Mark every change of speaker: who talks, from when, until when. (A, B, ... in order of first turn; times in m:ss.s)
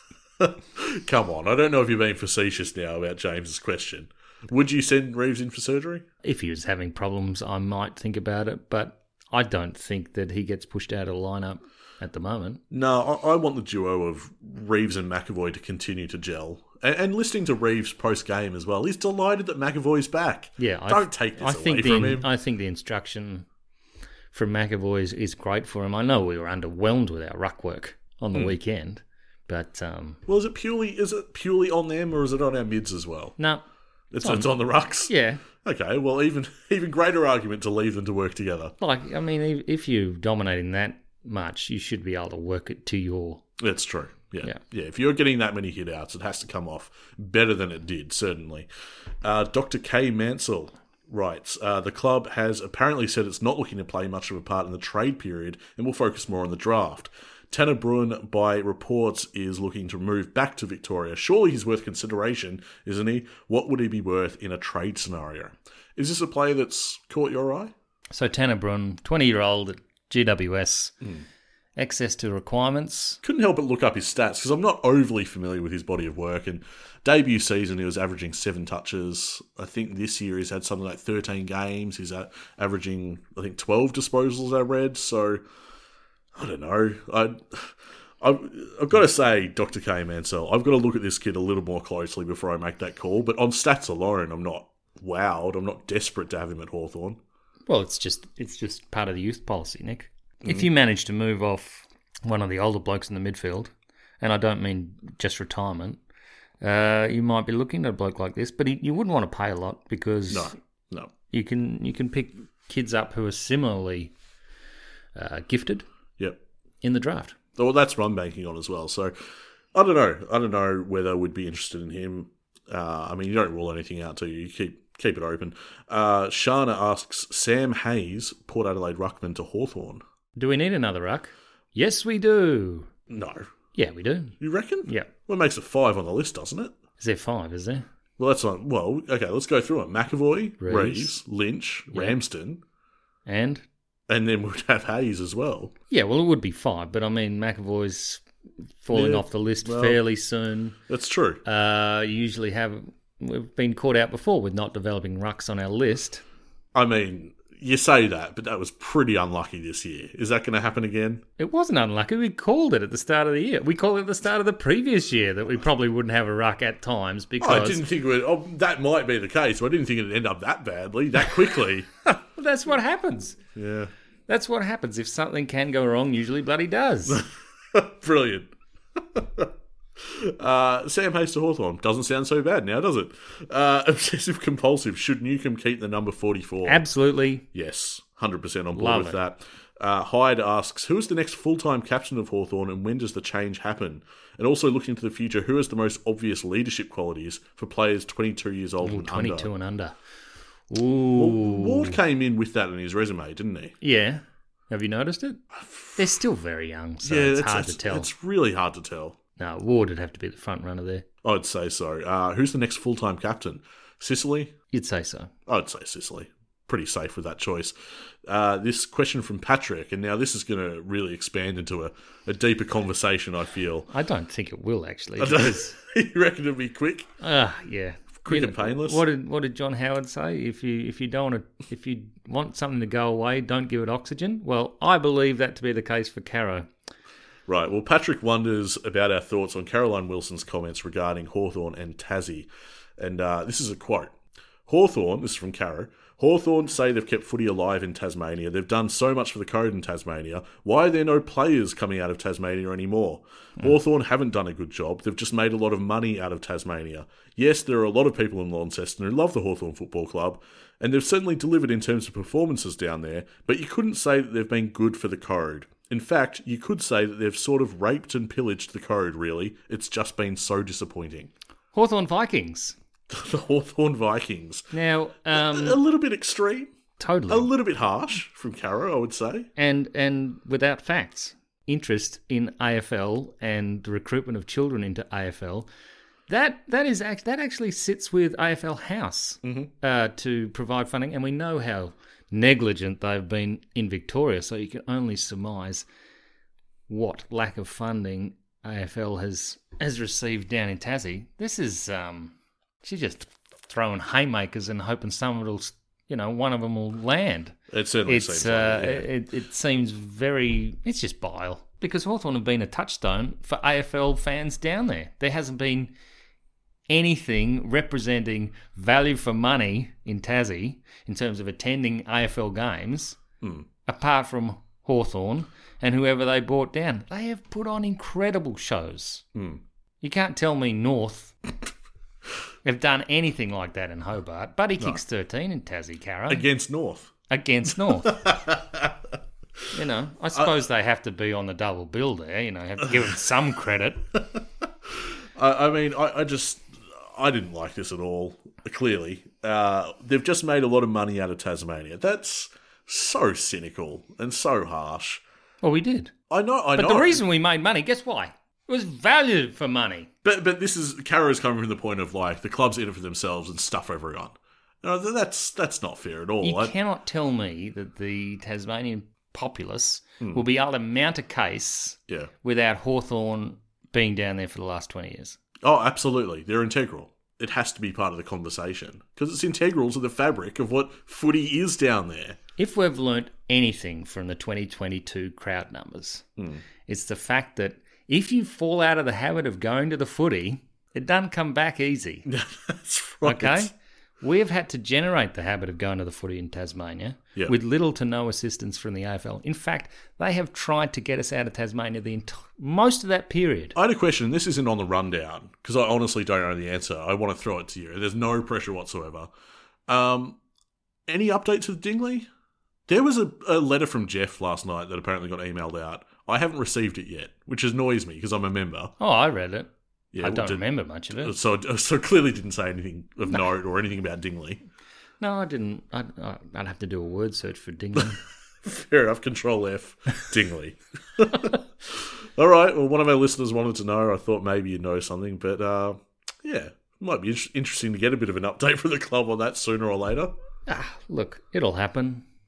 0:00.4-0:06.0 A
0:06.2-0:12.6 B
0:12.7-0:22.3 A
0:20.6-0:23.5 B
0:24.3-0:30.2 B
0:30.3-0:33.4 A
0:33.4-0:33.6 B
0:34.1-0:38.7 A
0:34.2-0:34.5 B
0:35.0-0:35.4 B
0:38.8-0:43.4 B
0:43.6-0:48.7 A
0:49.2-1:07.7 A
1:08.1-1:11.0 B
1:11.8-1:13.2 B
1:13.2-1:25.4 A
1:26.3-1:37.2 A
1:37.7-1:46.0 B
1:46.6-1:50.5 B
1:50.3-1:51.1 A
1:51.3-1:54.1 B
1:55.1-1:55.8 B
1:56.8-1:57.4 B
1:57.6-1:59.1 A
1:59.7-2:10.0 A
2:10.4-2:12.9 B
2:13.1-2:13.5 A
2:13.7-2:15.1 B
2:14.4-2:16.7 A
2:17.0-2:17.8 B
2:18.2-2:22.6 A
2:20.6-2:21.1 B
2:21.9-2:22.2 B
2:23.2-2:23.6 B
2:24.1-2:25.7 A
2:25.9-2:28.2 B
2:28.8-2:30.8 B
2:28.9-2:30.0 A
2:30.9-2:31.4 A
2:31.4-2:36.2 B
2:36.7-2:41.2 A
2:41.4-2:47.8 B
2:47.4-2:51.9 A
2:52.0-2:53.4 B
2:53.5-2:53.9 A
2:54.3-2:57.2 B
2:57.1-3:06.8 A
3:06.6-3:07.4 B
3:07.5-3:19.5 A
3:08.7-3:09.2 B
3:18.8-3:19.9 B
3:20.7-3:22.0 B
3:21.1-3:23.8 A
3:23.8-3:25.4 B
3:25.5-3:26.0 A
3:26.0-3:28.1 B
3:27.0-3:29.2 A
3:29.4-3:31.0 B
3:31.2-3:34.5 A
3:34.7-3:35.3 B
3:35.5-3:37.7 A
3:38.2-3:43.9 A
3:43.9-3:45.8 B
3:45.2-3:47.1 A
3:47.2-3:56.7 B
3:48.2-3:49.0 A
3:57.5-4:04.1 A
4:04.7-4:31.3 A
4:31.7-4:32.8 B
4:33.1-4:34.7 A
4:34.7-4:35.8 B
4:35.3-4:36.7 A
4:37.0-4:37.5 B
4:37.3-4:39.5 A
4:39.6-4:45.7 B
4:46.3-4:55.8 B
4:49.4-4:49.7 A
4:56.9-5:15.9 B
5:07.7-5:09.1 A
5:16.9-5:23.2 B
5:23.4-5:23.6 A
5:23.8-5:29.2 B
5:29.3-5:29.6 A
5:30.0-5:31.3 B
5:32.6-5:36.4 B
5:36.3-5:37.1 A
5:37.3-5:38.2 B
5:37.8-5:39.0 A
5:39.7-5:44.1 B
5:45.0-5:55.2 A
5:55.6-5:56.1 B
5:56.3-5:57.2 A
5:56.7-6:00.1 B
6:00.2-6:06.7 A
6:06.4-6:15.4 B
6:15.6-6:22.4 A
6:22.6-6:26.2 B
6:26.8-6:32.3 B
6:32.3-6:33.7 A
6:33.2-6:43.8 B
6:43.7-6:49.3 A
6:49.9-6:50.4 A
6:51.1-6:52.3 A
6:52.9-6:58.9 A
6:59.0-7:01.3 B
7:00.1-7:00.6 A
7:01.2-7:04.6 A
7:05.2-7:08.2 B
7:08.6-7:20.3 A
7:20.7-7:22.2 B